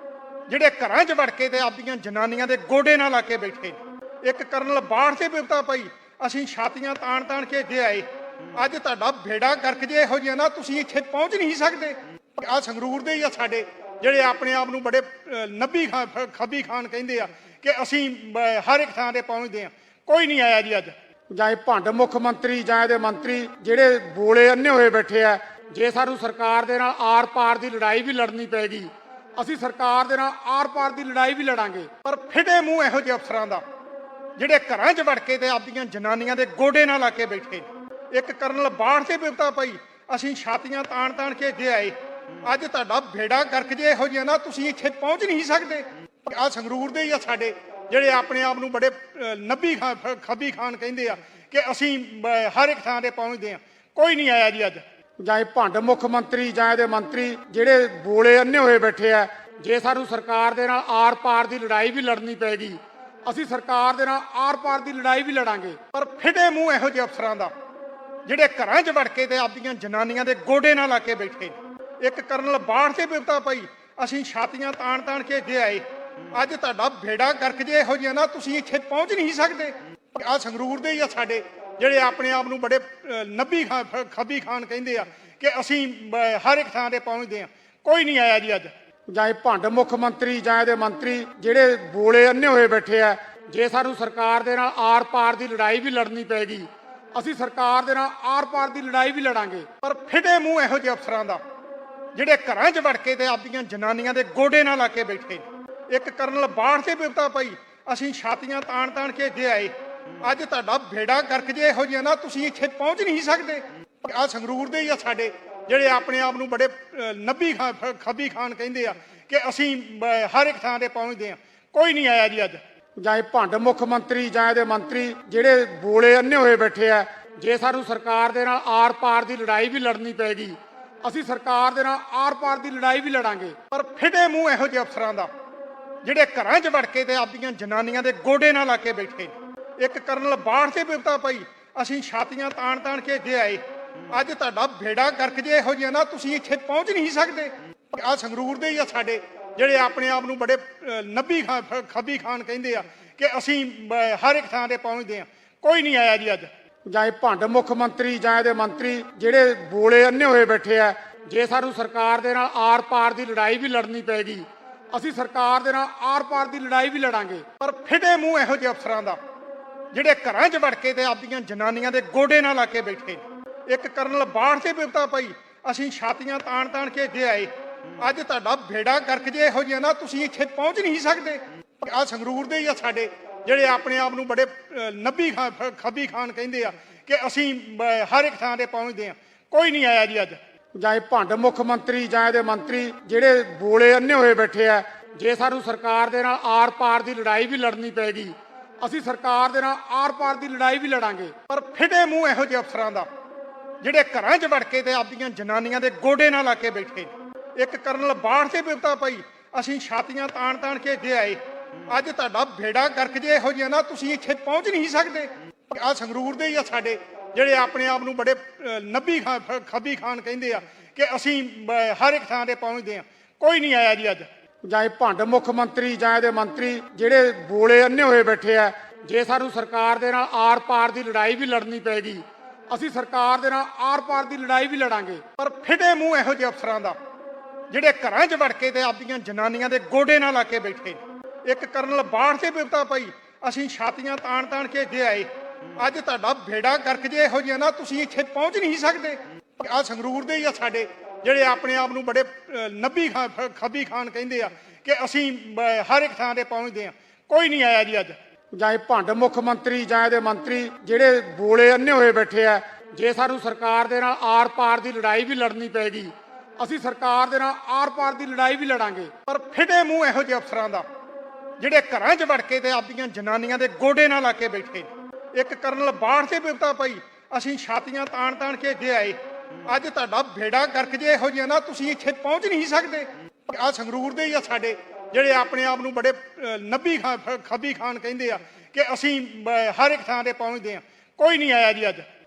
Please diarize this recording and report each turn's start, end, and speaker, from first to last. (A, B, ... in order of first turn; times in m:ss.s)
0:00.5-0:20.9 A
0:21.3-0:31.9 B
0:32.0-0:33.6 A
0:34.4-0:54.8 A
0:55.2-1:05.8 B
1:05.9-1:07.5 A
1:08.2-1:28.7 A
1:29.1-1:39.7 B
1:39.8-1:41.4 A
1:42.1-2:02.6 A
2:03.0-2:13.6 B
2:13.7-2:15.3 A
2:16.0-2:36.5 A
2:36.9-2:47.4 B
2:47.6-2:49.2 A
2:49.9-3:10.4 A
3:10.8-3:21.3 B
3:21.5-3:23.1 A
3:23.8-3:44.3 A
3:44.6-3:55.2 B
3:55.4-3:57.0 A
3:57.7-4:18.2 A
4:18.5-4:29.1 B
4:29.3-4:30.8 A
4:31.6-4:52.0 A